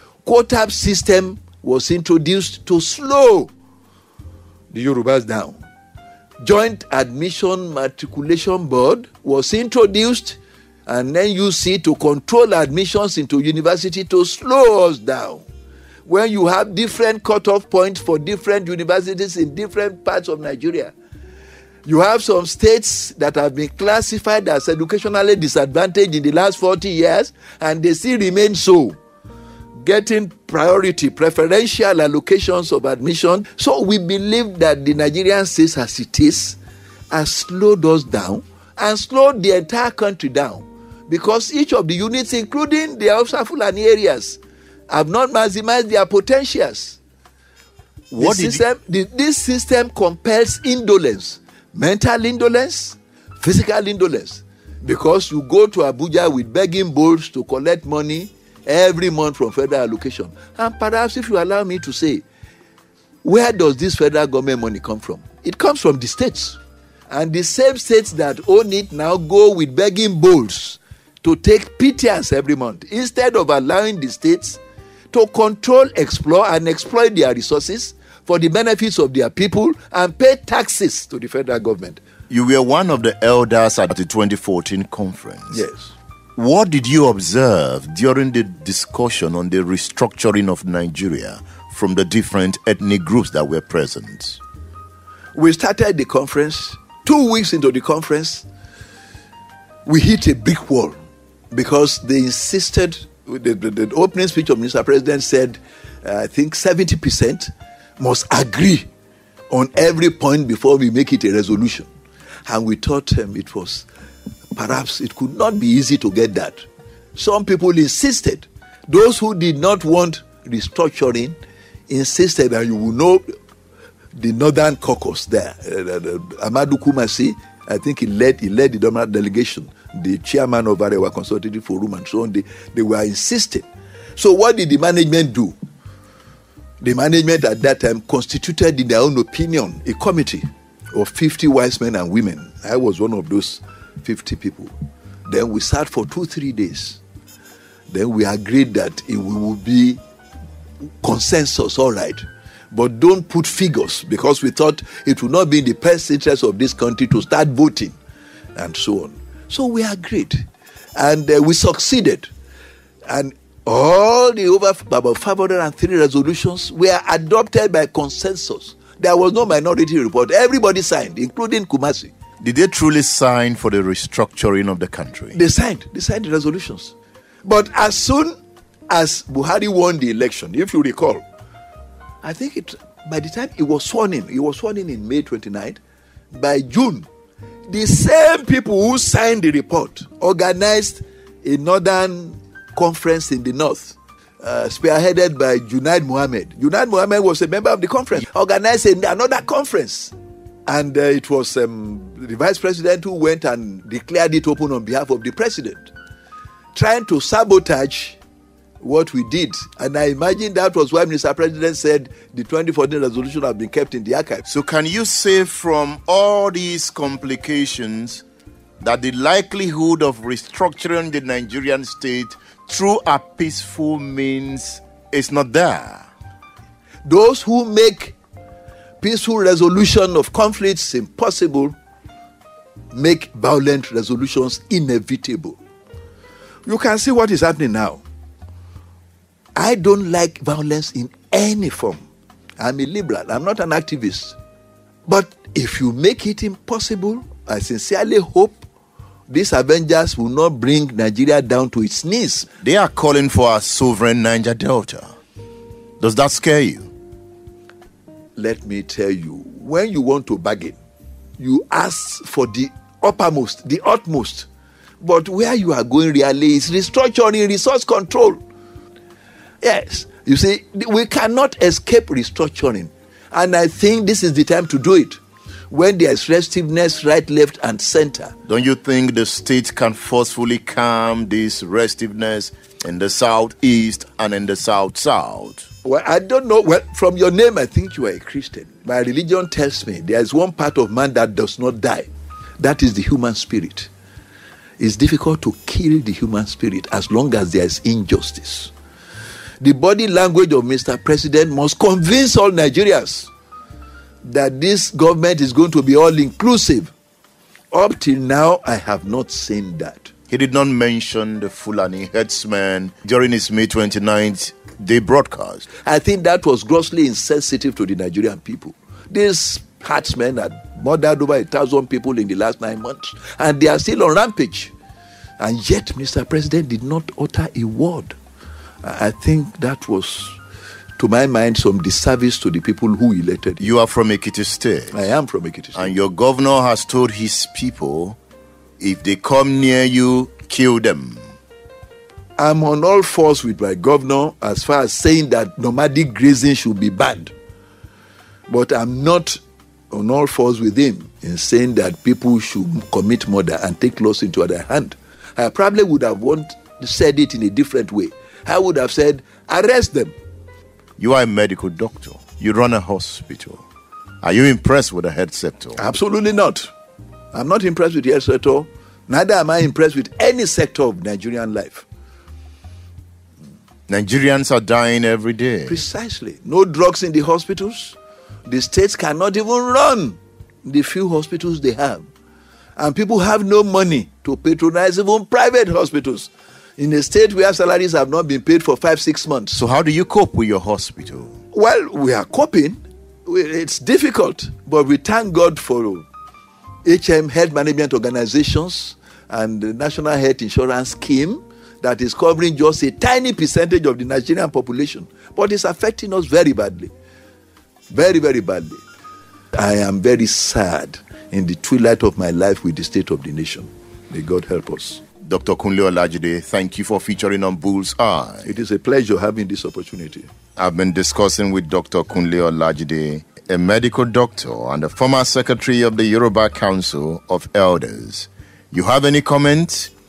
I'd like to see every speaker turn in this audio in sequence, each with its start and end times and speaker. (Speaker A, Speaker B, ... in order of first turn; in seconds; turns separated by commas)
Speaker A: 0.2-3.5, Speaker A: 4.7-5.6, Speaker A: 6.4-15.4, Speaker A: 16.1-20.9, Speaker A: 21.9-29.0, Speaker A: 29.8-36.6, Speaker A: 37.1-47.0, Speaker A: 48.1-62.2, Speaker B: 48.1-48.6, Speaker A: 63.2-66.6, Speaker A: 67.1-74.6, Speaker A: 75.1-82.0, Speaker B: 82.3-85.6, Speaker A: 85.5-85.9, Speaker B: 86.4-94.4, Speaker A: 95.3-98.5, Speaker A: 99.9-101.0, Speaker A: 101.5-108.9, Speaker A: 109.5-111.9, Speaker A: 112.5-113.9, Speaker A: 114.5-121.4, Speaker A: 121.9-123.2, Speaker A: 124.2-133.7, Speaker A: 134.2-135.6, Speaker A: 136.8-144.7, Speaker A: 145.3-147.0, Speaker A: 147.9-150.0, Speaker A: 151.0-157.9, Speaker A: 158.6-160.4, Speaker A: 161.0-162.3, Speaker A: 163.1-172.1, Speaker B: 172.4-175.4, Speaker A: 175.3-178.3, Speaker A: 178.9-181.2, Speaker A: 182.2-185.8, Speaker A: 186.3-187.1, Speaker A: 187.7-200.1, Speaker A: 200.7-205.9, Speaker A: 206.8-208.2, Speaker A: 208.8-214.4, Speaker B: 214.5-218.2, Speaker B: 218.8-226.1, Speaker A: 227.1-228.2, Speaker A: 229.0-231.7, Speaker A: 232.9-235.6, Speaker A: 236.7-238.0, Speaker A: 239.6-242.1, Speaker A: 242.6-244.4, Speaker A: 245.1-248.6, Speaker A: 249.3-252.5, Speaker B: 252.6-255.1, Speaker B: 256.0-256.9, Speaker A: 258.4-260.8, Speaker A: 261.4-264.5, Speaker A: 265.0-268.4, Speaker A: 269.6-275.2, Speaker A: 275.7-278.4, Speaker B: 278.5-285.7, Speaker A: 285.8-293.9, Speaker A: 294.8-298.7, Speaker A: 299.6-303.3, Speaker A: 304.3-306.9, Speaker A: 307.7-310.1, Speaker B: 310.3-315.7, Speaker A: 315.8-324.7, Speaker A: 325.4-328.2, Speaker A: 328.8-330.4, Speaker A: 331.0-333.7, Speaker B: 333.6-335.0, Speaker A: 334.9-335.9, Speaker B: 335.8-338.2, Speaker B: 338.8-341.2, Speaker A: 342.4-347.3, Speaker A: 348.5-349.4, Speaker A: 349.9-360.1, Speaker B: 361.0-363.6, Speaker B: 364.2-365.8, Speaker A: 365.8-366.7, Speaker A: 367.3-371.9, Speaker B: 373.9-375.8, Speaker A: 375.7-382.1, Speaker A: 382.8-389.6, Speaker B: 389.5-391.4, Speaker A: 391.5-396.1, Speaker A: 396.9-406.9, Speaker A: 407.9-408.8, Speaker A: 409.5-415.0, Speaker B: 415.2-418.5, Speaker A: 418.4-420.3, Speaker B: 420.6-429.9